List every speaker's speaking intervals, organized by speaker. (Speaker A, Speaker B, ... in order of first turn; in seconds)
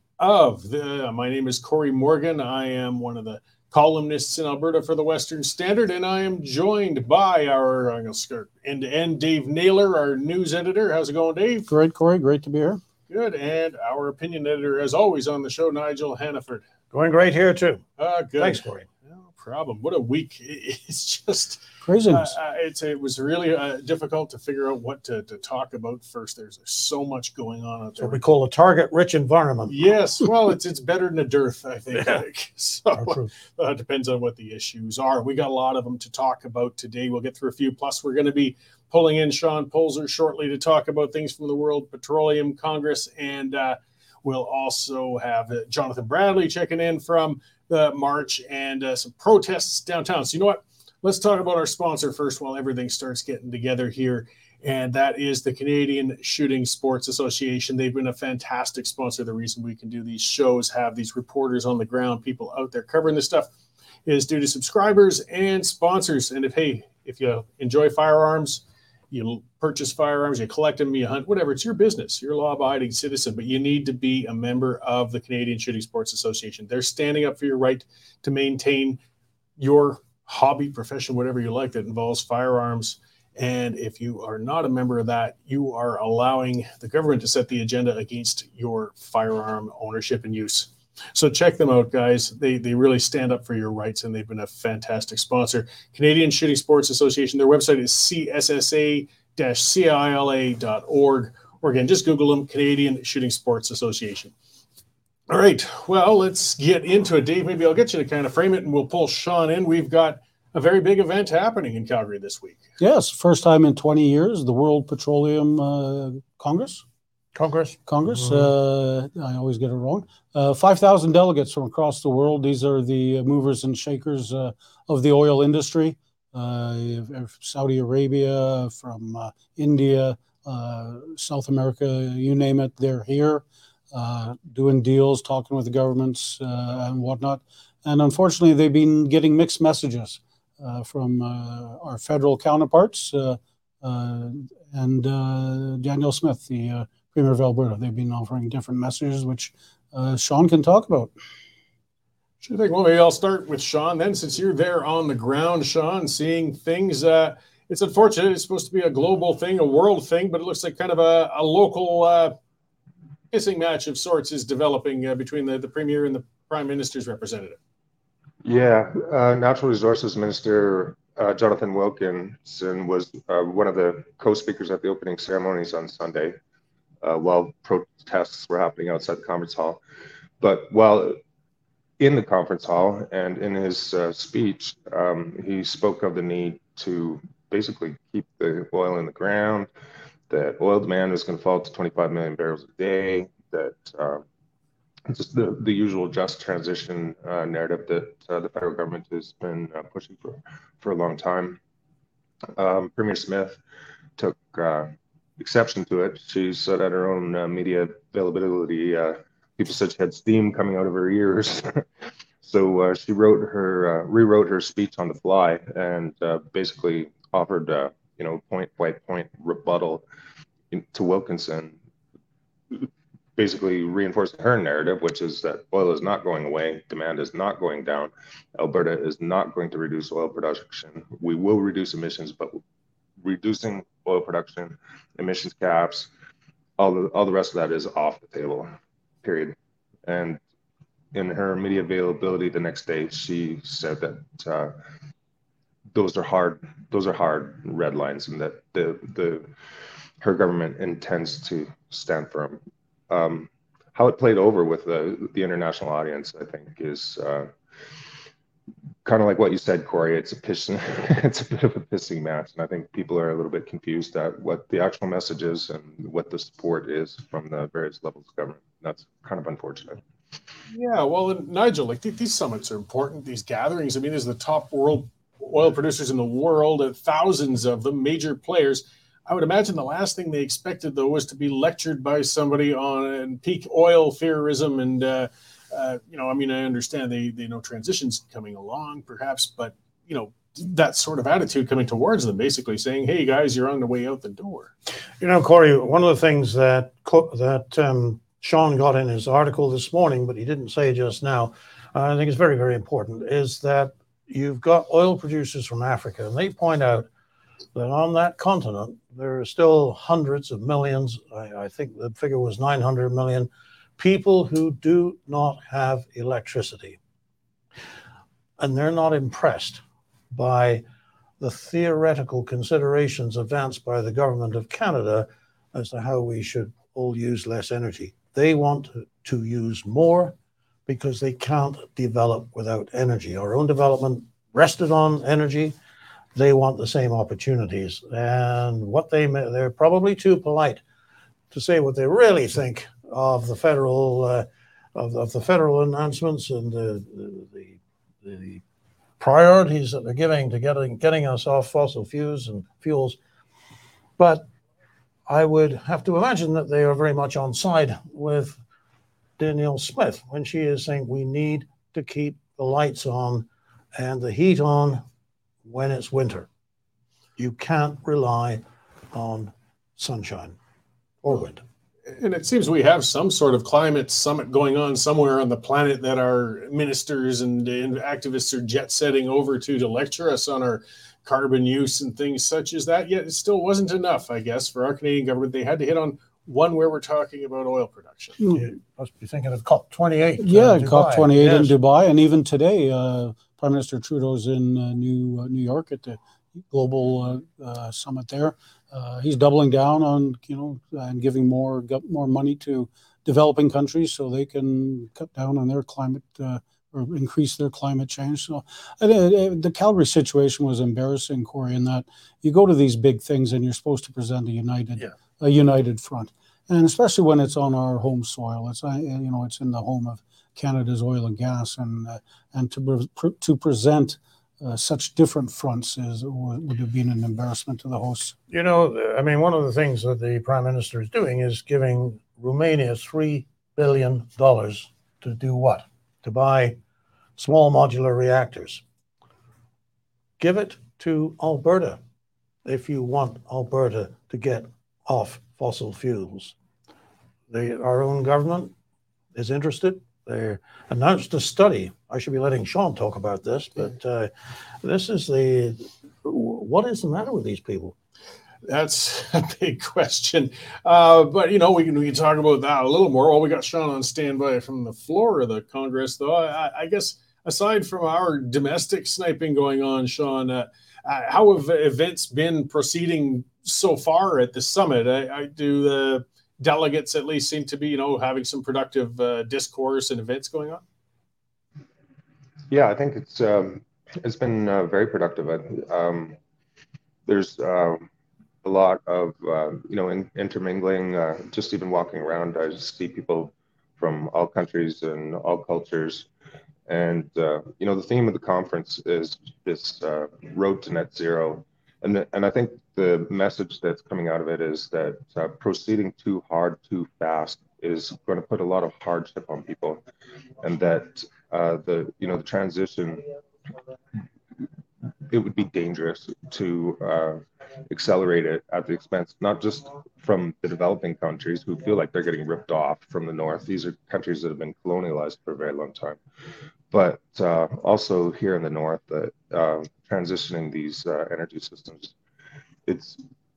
Speaker A: 0.2-11.7, 13.1-16.6, 18.0-28.2, 29.7-63.5, 64.0-79.0, 79.6-104.3, 105.3-112.6, 152.4-162.3, 163.3-167.6, 270.7-294.7, 372.1-388.4, 458.6-480.8
Speaker B: 11.7-12.8, 21.8-22.3, 112.8-116.8, 117.9-151.1, 390.4-396.2, 396.7-428.4
Speaker C: 16.9-17.8, 18.4-18.9, 28.0-29.8, 31.9-32.2, 32.9-33.3, 117.3-118.5, 295.2-307.1, 307.7-317.0, 318.6-320.8, 321.4-330.4, 330.9-335.8, 336.3-340.8, 341.5-348.6, 349.2-353.2, 354.2-354.5, 355.3-358.6, 359.4-365.0, 365.6-366.5, 367.4-370.6, 371.2-371.6, 388.5-391.8, 428.5-436.8, 437.4-438.8, 440.4-442.0, 442.6-446.6, 447.5-448.7, 449.3-454.3, 454.8-457.9
Speaker D: 168.4-176.3, 177.0-179.8, 180.4-181.2, 182.0-189.7, 190.3-194.2, 195.1-201.6, 202.6-203.6, 204.2-211.8, 212.4-220.0, 220.7-221.8, 222.7-232.6, 233.2-236.1, 236.8-238.7, 239.2-239.5, 240.1-240.4, 241.1-244.7, 245.9-249.5, 250.2-257.5, 259.0-270.0, 482.7-486.4, 487.2-488.1, 488.6-496.3, 496.9-510.0, 510.6-513.3, 515.3-526.2, 526.9-532.1, 532.9-533.2